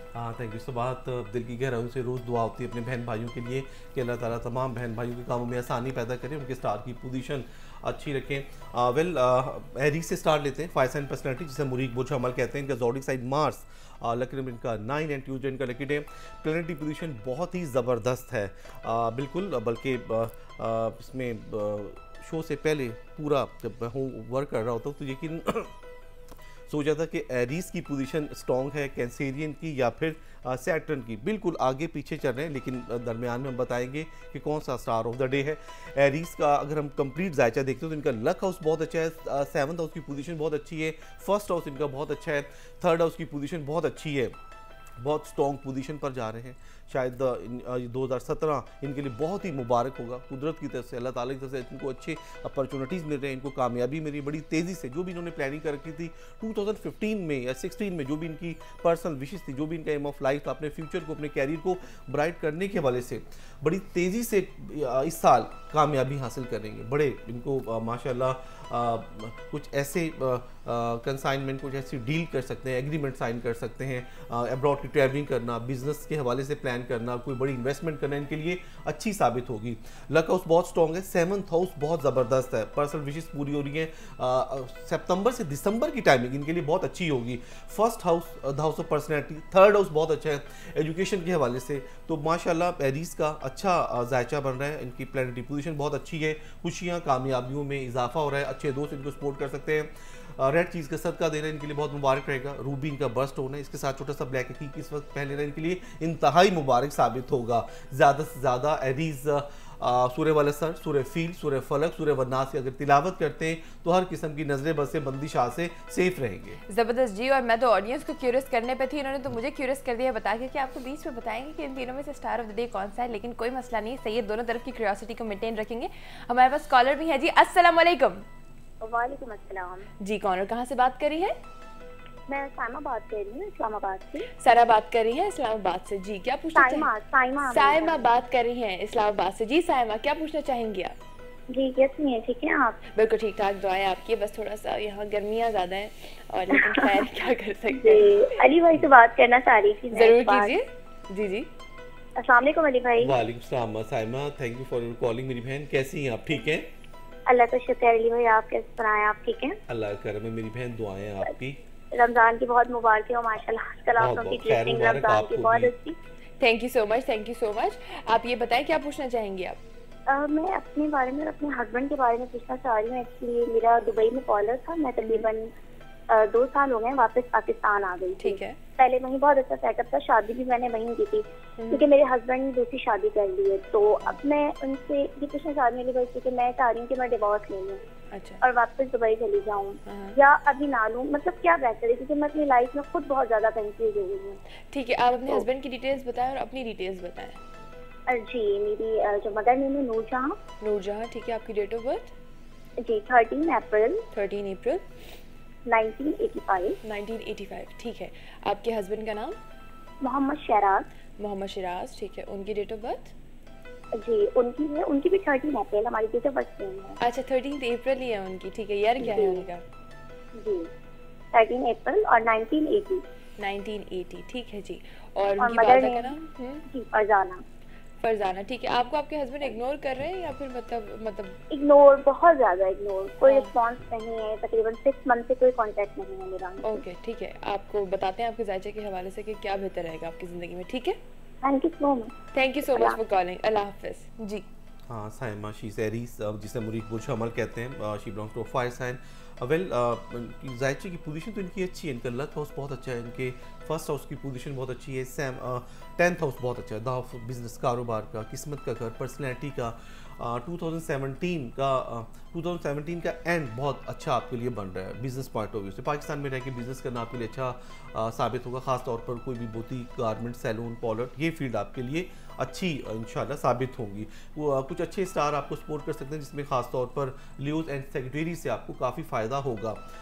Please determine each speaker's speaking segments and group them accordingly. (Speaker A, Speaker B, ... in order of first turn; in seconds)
Speaker A: 0.1-25.8, 26.7-44.4, 45.0-116.6, 153.0-156.7, 159.7-161.6, 164.0-165.7, 244.9-279.8
Speaker B: 116.7-128.3, 130.0-131.4, 134.4-136.9, 137.5-140.9, 142.9-148.4, 149.9-151.5, 166.4-169.6, 175.0-175.3, 178.2-178.6, 181.6-181.8, 188.1-188.4, 189.8-190.2, 194.7-197.4, 200.6-202.1, 204.1-204.8, 206.8-209.4, 211.2-213.1, 217.0-219.6, 223.4-226.7, 228.0-231.4, 233.3-233.5, 236.6-241.0, 242.3-244.4
Speaker C: 128.8-129.9, 132.3-134.3, 136.6-138.0, 141.5-142.8, 147.8-150.5, 152.2-153.2, 157.3-159.6, 161.9-166.0, 170.1-175.5, 176.1-187.8, 188.4-194.4, 198.1-200.4, 202.8-204.1, 205.7-206.8, 210.0-210.9, 214.0-217.0, 219.0-219.4, 220.3-220.7, 221.3-223.0, 225.4-226.2, 226.7-227.4, 231.5-236.8, 241.4-242.2, 242.7-243.0